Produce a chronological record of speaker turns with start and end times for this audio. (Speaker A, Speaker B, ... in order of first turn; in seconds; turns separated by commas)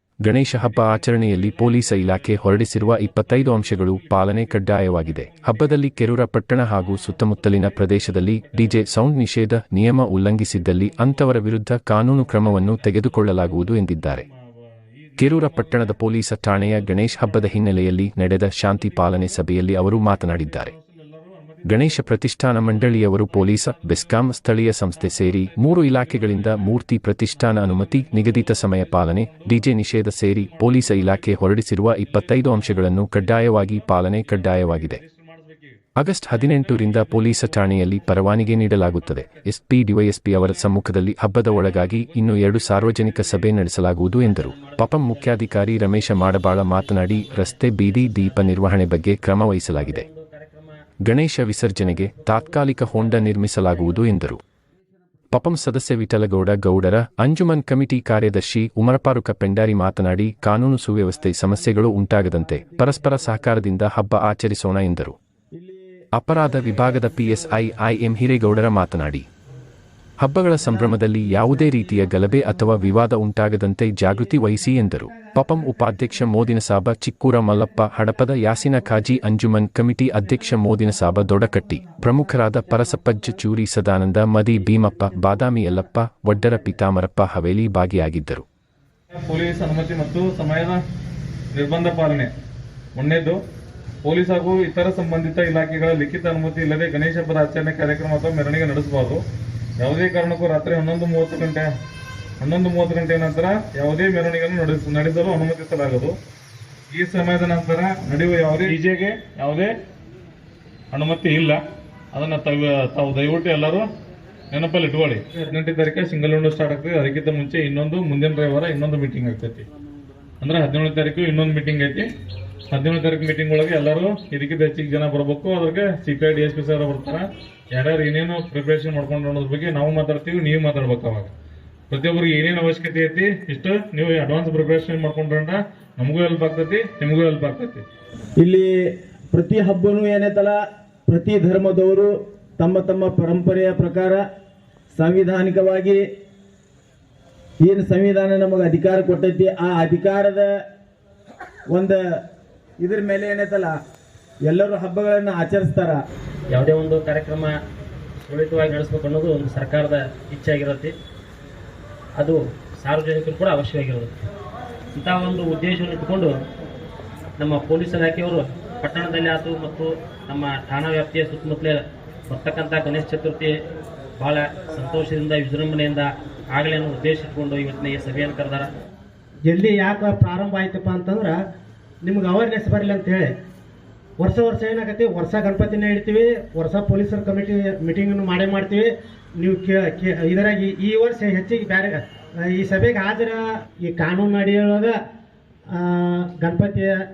Speaker A: 0.2-14.2, Speaker B: 0.5-6.0, Speaker B: 6.8-9.0, Speaker B: 10.8-11.2, Speaker B: 12.2-16.0, Speaker A: 15.2-20.7, Speaker B: 16.8-17.4, Speaker B: 18.8-19.4, Speaker B: 20.4-39.5, Speaker A: 21.6-35.0, Speaker A: 36.0-50.0, Speaker B: 41.6-43.0, Speaker C: 43.2-48.9, Speaker C: 49.8-50.8, Speaker A: 51.0-54.4, Speaker C: 51.8-54.0, Speaker A: 55.3-65.2, Speaker D: 65.6-65.9, Speaker A: 66.2-69.2, Speaker A: 70.2-88.4, Speaker B: 89.1-90.8, Speaker B: 91.5-92.3, Speaker B: 93.0-93.4, Speaker B: 94.0-99.2, Speaker B: 99.8-101.7, Speaker B: 102.4-106.2, Speaker B: 106.9-109.7, Speaker B: 110.9-111.6, Speaker B: 112.1-113.9, Speaker B: 114.5-119.7, Speaker B: 120.4-122.1, Speaker B: 122.7-131.3, Speaker B: 131.9-137.8, Speaker D: 138.4-138.7, Speaker D: 139.3-140.6, Speaker D: 141.1-144.2, Speaker D: 144.9-146.0, Speaker D: 147.6-150.5, Speaker D: 151.7-152.0, Speaker D: 152.8-153.7, Speaker D: 154.5-156.0, Speaker C: 156.5-157.5, Speaker C: 158.2-160.9, Speaker C: 162.2-164.1, Speaker C: 164.9-166.3, Speaker C: 167.4-173.5, Speaker C: 174.2-178.7, Speaker E: 179.5-181.4, Speaker E: 182.0-183.3, Speaker E: 184.2-194.9, Speaker E: 195.7-197.0